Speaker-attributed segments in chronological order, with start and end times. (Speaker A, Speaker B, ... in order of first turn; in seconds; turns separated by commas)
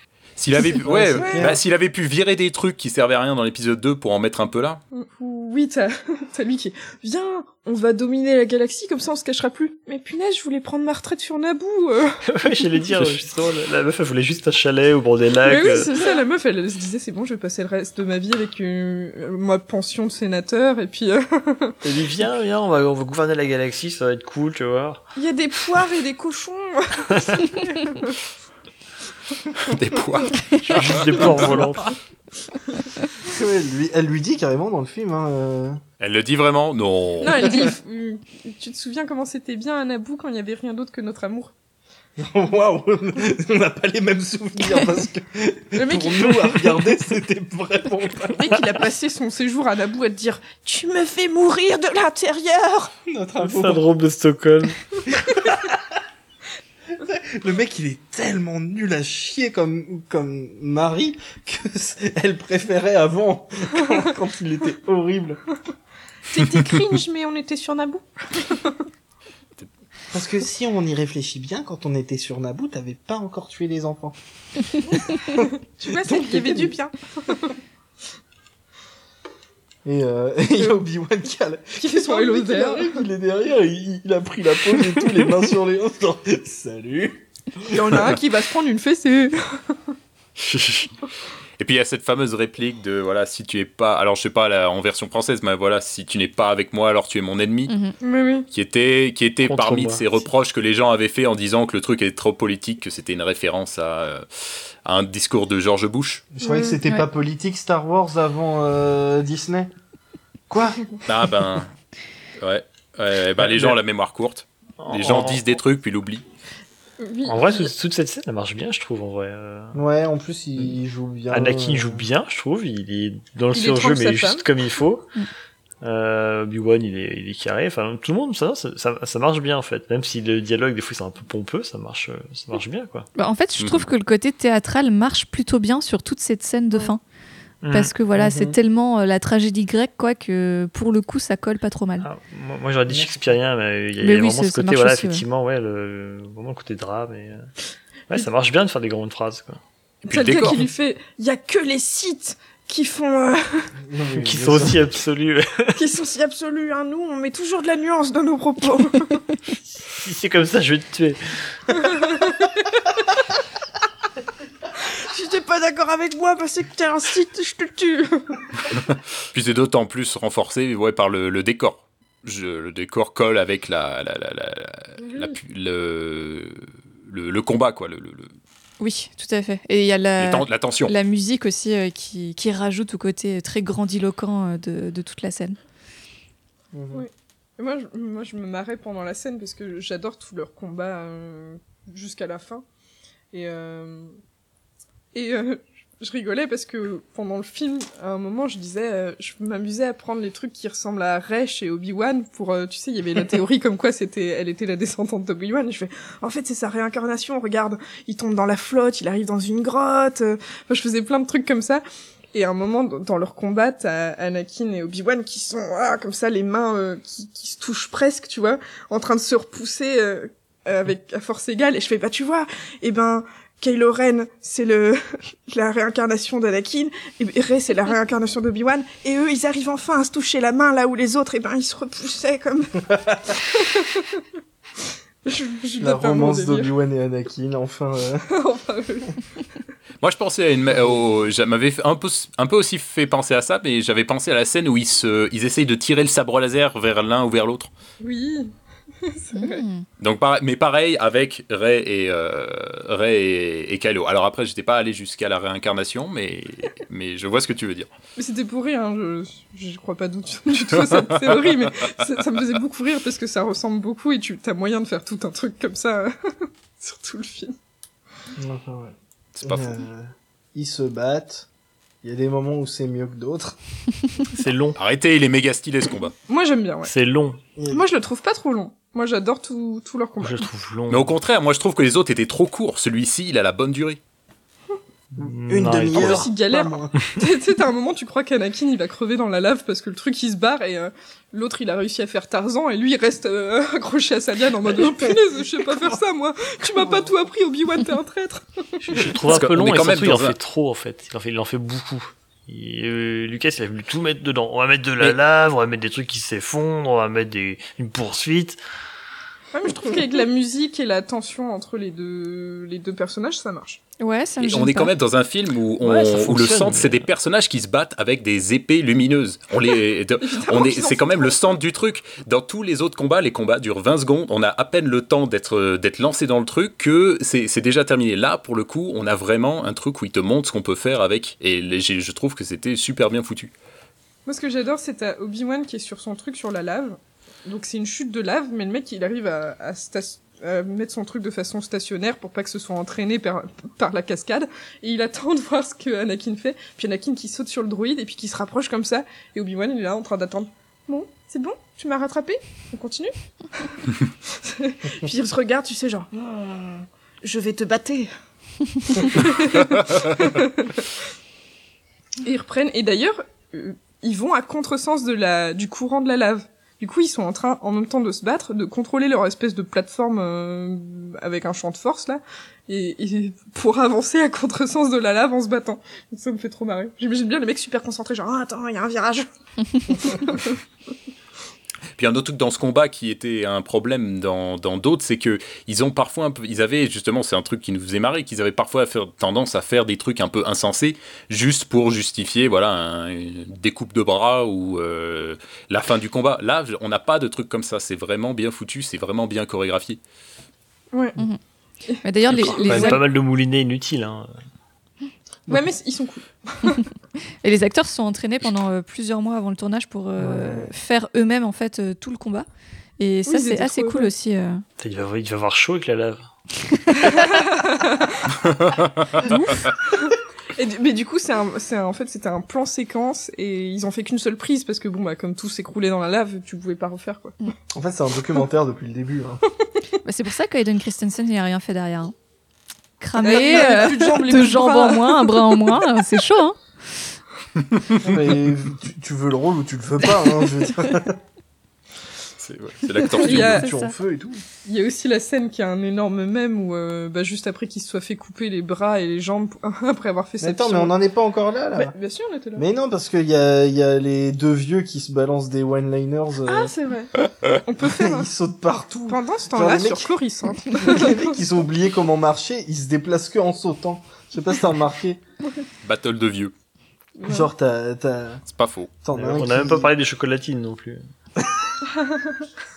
Speaker A: 0.4-4.8, Speaker B: 0.8-1.6, Speaker C: 1.2-1.5, Speaker C: 4.9-12.2, Speaker D: 12.2-16.0, Speaker C: 15.4-21.8, Speaker D: 21.8-25.0, Speaker C: 25.2-28.2, Speaker D: 27.2-27.4, Speaker A: 29.6-31.6, Speaker D: 30.6-31.9, Speaker B: 33.3-35.8, Speaker A: 36.0-37.7, Speaker C: 37.2-41.5, Speaker B: 42.2-48.6, Speaker C: 45.8-46.5, Speaker C: 48.4-52.9, Speaker B: 53.1-53.9, Speaker D: 53.4-54.8, Speaker B: 55.3-55.8, Speaker B: 57.0-65.4, Speaker C: 66.3-68.8, Speaker B: 70.1-74.2, Speaker B: 74.9-76.8, Speaker C: 74.9-77.5, Speaker B: 79.8-88.1, Speaker C: 81.8-83.0, Speaker C: 87.7-89.9, Speaker A: 90.4-90.9, Speaker A: 91.6-97.7, Speaker E: 97.7-97.9, Speaker C: 98.0-98.5, Speaker A: 98.5-106.3, Speaker D: 99.4-100.3, Speaker B: 106.3-109.7, Speaker C: 106.4-106.8, Speaker B: 110.5-110.8, Speaker A: 111.1-111.7, Speaker A: 112.4-116.2, Speaker D: 113.4-113.8, Speaker D: 114.8-115.5, Speaker C: 117.0-117.7, Speaker D: 117.2-119.8, Speaker B: 119.7-122.1, Speaker D: 121.3-125.1, Speaker C: 123.5-124.5, Speaker D: 125.8-133.1, Speaker E: 133.2-137.0, Speaker A: 133.6-133.9, Speaker D: 137.6-137.9, Speaker E: 137.7-142.1, Speaker B: 138.2-138.6, Speaker D: 142.0-147.5, Speaker B: 142.9-143.3, Speaker E: 144.0-145.2, Speaker D: 148.1-149.6, Speaker A: 150.1-150.6, Speaker C: 150.1-153.7, Speaker B: 153.9-154.8, Speaker D: 154.2-156.0, Speaker C: 155.8-159.3, Speaker D: 159.9-161.2, Speaker C: 161.7-162.9, Speaker C: 164.8-168.4, Speaker A: 168.9-178.3, Speaker C: 175.0-175.4, Speaker E: 178.8-185.6, Speaker A: 180.2-180.9, Speaker B: 186.7-187.1, Speaker C: 186.9-192.7, Speaker C: 193.3-194.1, Speaker C: 195.1-234.2, Speaker B: 232.9-233.2, Speaker C: 235.2-236.7, Speaker B: 235.8-238.2, Speaker C: 238.3-239.2, Speaker A: 240.0-247.7, Speaker B: 240.7-241.0, Speaker C: 248.0-249.6, Speaker E: 249.4-249.8, Speaker A: 250.0-257.9, Speaker C: 258.2-267.6, Speaker B: 268.4-271.5, Speaker A: 269.4-269.9, Speaker B: 272.0-273.6, Speaker D: 274.3-274.8, Speaker A: 274.8-276.1, Speaker C: 276.3-276.9, Speaker D: 276.9-277.4, Speaker B: 277.6-277.8, Speaker C: 277.7-280.5, Speaker D: 280.2-281.2, Speaker A: 280.9-284.0, Speaker D: 285.1-286.3, Speaker B: 285.2-286.9, Speaker C: 285.9-299.0, Speaker B: 294.7-295.2, Speaker B: 296.6-297.1, Speaker D: 298.8-308.6, Speaker A: 299.3-300.4, Speaker C: 309.5-313.8, Speaker E: 314.0-314.9, Speaker A: 314.4-333.5, Speaker D: 315.8-317.1, Speaker C: 320.2-321.4, Speaker C: 334.3-358.1, Speaker C: 358.9-360.9, Speaker C: 362.2-379.3, Speaker C: 379.9-380.6, Speaker A: 382.0-400.0, Speaker C: 401.9-403.0, Speaker E: 402.0-403.0, Speaker D: 402.3-404.3, Speaker C: 405.5-406.8, Speaker E: 407.4-412.5, Speaker B: 410.2-410.7, Speaker E: 413.0-414.6, Speaker C: 413.3-414.1, Speaker D: 414.8-416.3, Speaker E: 416.7-417.2, Speaker C: 417.1-418.2, Speaker A: 418.6-419.2, Speaker C: 419.2-427.4, Speaker B: 427.7-429.4, Speaker E: 430.1-432.1, Speaker E: 433.0-436.6, Speaker C: 433.2-436.0, Speaker A: 437.7-438.0, Speaker B: 438.0-441.2, Speaker A: 442.4-443.6, Speaker C: 443.2-443.7, Speaker B: 443.3-444.4, Speaker E: 443.6-443.9, Speaker C: 444.6-450.9, Speaker B: 450.4-451.9, Speaker C: 451.8-452.6, Speaker B: 452.6-456.7, Speaker C: 456.4-457.1, Speaker B: 457.5-460.1, Speaker C: 457.6-458.3, Speaker C: 459.1-461.4, Speaker B: 460.8-465.2, Speaker A: 465.8-466.5, Speaker C: 467.2-467.5, Speaker B: 467.2-468.4, Speaker A: 468.5-468.9, Speaker B: 469.0-469.9, Speaker D: 469.1-471.0, Speaker B: 471.4-471.8, Speaker C: 472.0-472.3